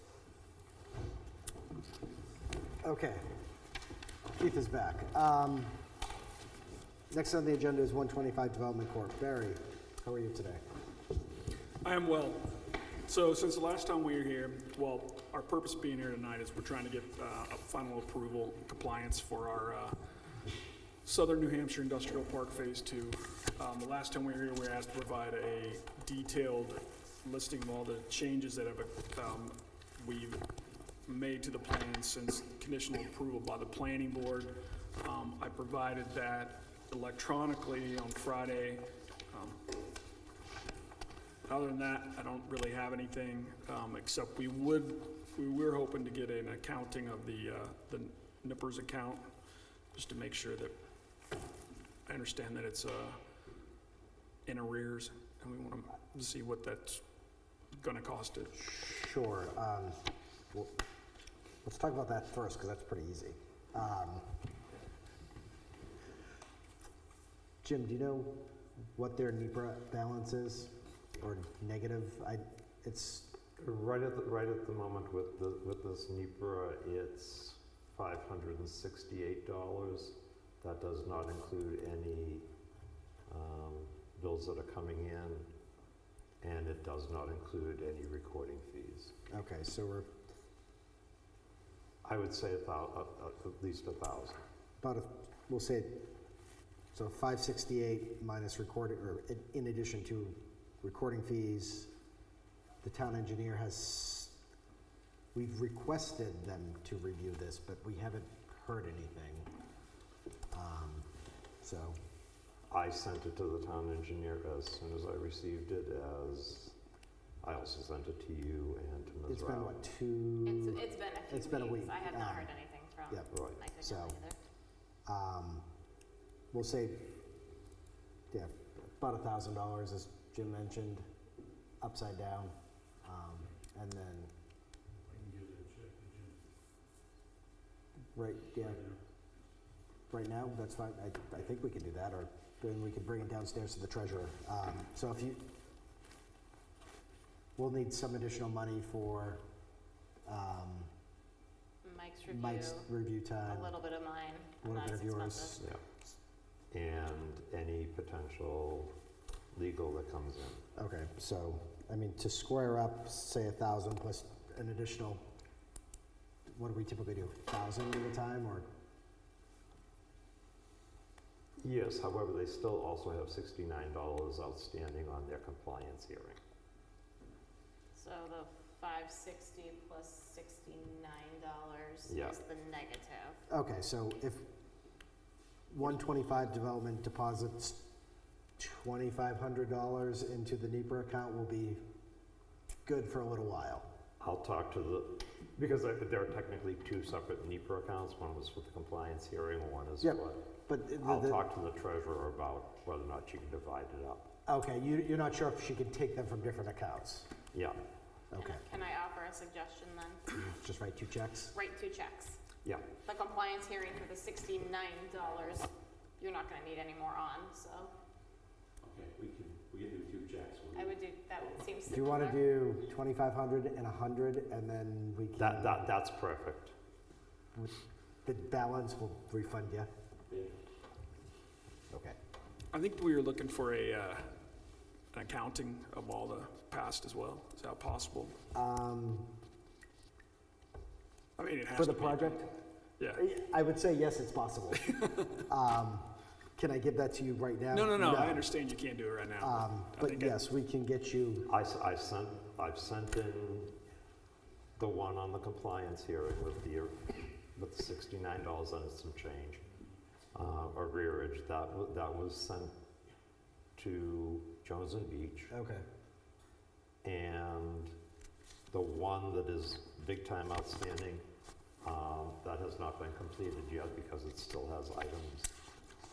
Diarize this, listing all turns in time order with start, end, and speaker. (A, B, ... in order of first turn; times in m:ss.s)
0:02.8-0:03.3 A
0:04.4-0:05.8 A
0:07.1-0:10.6 A
0:11.8-0:20.0 B
0:21.0-0:30.5 B
0:31.1-0:39.6 B
0:41.4-0:49.3 B
0:49.9-0:50.8 B
0:52.1-0:53.2 B
0:54.5-0:57.0 B
0:57.8-0:58.5 B
0:58.5-1:00.0 A
1:01.6-1:04.3 A
1:07.6-1:13.3 A
1:13.6-1:22.5 C
1:23.3-1:25.5 C
1:26.4-1:29.2 C
1:29.3-1:30.1 A
1:32.0-1:34.4 C
1:34.8-1:36.1 A
1:36.9-1:41.9 A
1:42.8-1:44.4 A
1:45.3-1:49.5 A
1:50.5-1:51.1 A
1:51.6-1:52.0 A
1:52.7-1:56.8 C
1:57.4-1:59.8 C
1:59.3-2:02.5 A
2:00.4-2:04.4 D
2:03.1-2:04.2 A
2:03.3-2:03.6 C
2:05.1-2:05.6 A
2:06.5-2:07.2 A
2:08.3-2:11.1 A
2:11.8-2:14.3 A
2:15.1-2:16.4 E
2:18.2-2:18.8 A
2:20.1-2:25.4 A
2:27.6-2:29.4 A
2:30.3-2:30.9 A
2:31.8-2:32.9 D
2:32.3-2:33.7 A
2:33.5-2:35.6 D
2:34.6-2:35.7 A
2:36.7-2:38.9 C
2:39.5-2:40.6 C
2:40.8-2:45.2 A
2:46.5-2:48.7 A
2:51.6-2:56.4 C
2:57.9-3:03.4 D
3:02.1-3:02.4 C
3:03.5-3:04.4 A
3:05.7-3:07.9 A
3:08.6-3:11.8 A
3:12.8-3:13.9 A
3:14.2-3:24.3 C
3:20.0-3:21.4 A
3:24.5-3:27.3 A
3:27.5-3:27.8 C
3:28.3-3:28.6 A
3:28.4-3:30.2 D
3:30.3-3:31.5 A
3:31.5-3:32.4 D
3:32.6-3:32.9 C
3:33.0-3:37.9 D
3:38.8-3:41.0 E
3:40.7-3:42.4 D
3:41.9-3:45.8 A
3:45.4-3:46.8 C
3:47.6-3:49.9 A
3:50.3-3:50.6 E
3:51.9-3:52.2 A
3:52.7-3:54.3 B
3:55.1-3:58.4 B
3:58.5-3:59.3 A
4:01.4-4:03.2 B
4:01.7-4:02.5 A
4:03.1-4:08.5 A
4:04.9-4:05.2 B
4:07.7-4:10.4 B
4:09.4-4:11.5 A
4:11.5-4:13.8 C
4:14.8-4:19.6 C
4:20.3-4:22.8 C
4:23.8-4:25.5 C
4:25.5-4:25.8 A
4:27.0-4:27.9 C
4:28.7-4:31.2 C
4:31.8-4:35.5 C